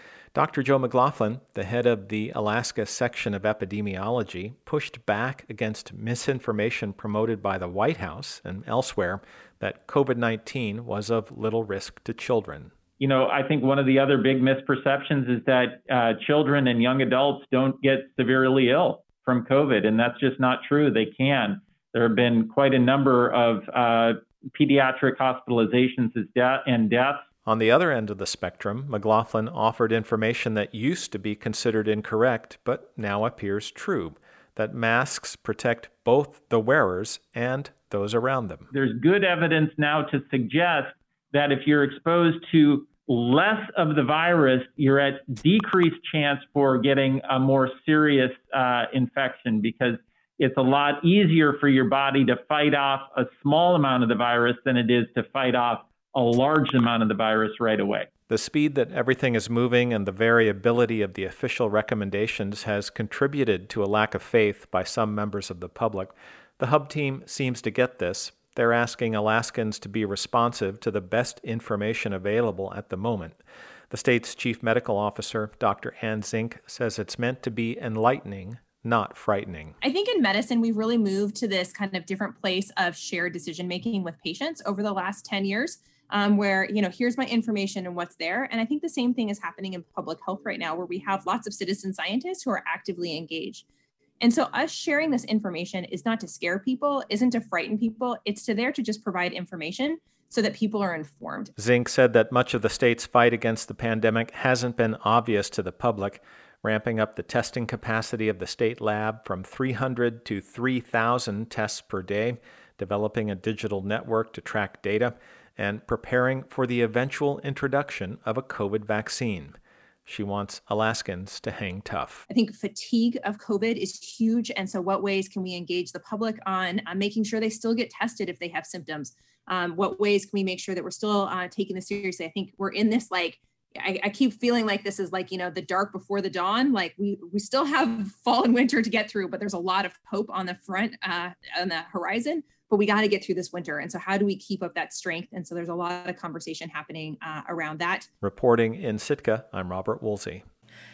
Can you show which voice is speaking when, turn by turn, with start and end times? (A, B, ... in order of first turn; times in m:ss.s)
0:00.3-0:12.7 A
0:13.0-0:27.2 B
0:27.4-0:38.7 A
0:38.7-0:58.1 B
0:58.3-1:13.4 A
1:13.9-1:19.8 A
1:19.8-1:33.6 C
1:34.2-1:41.5 C
1:41.6-2:02.2 A
2:02.3-2:28.1 C
2:28.2-2:30.4 A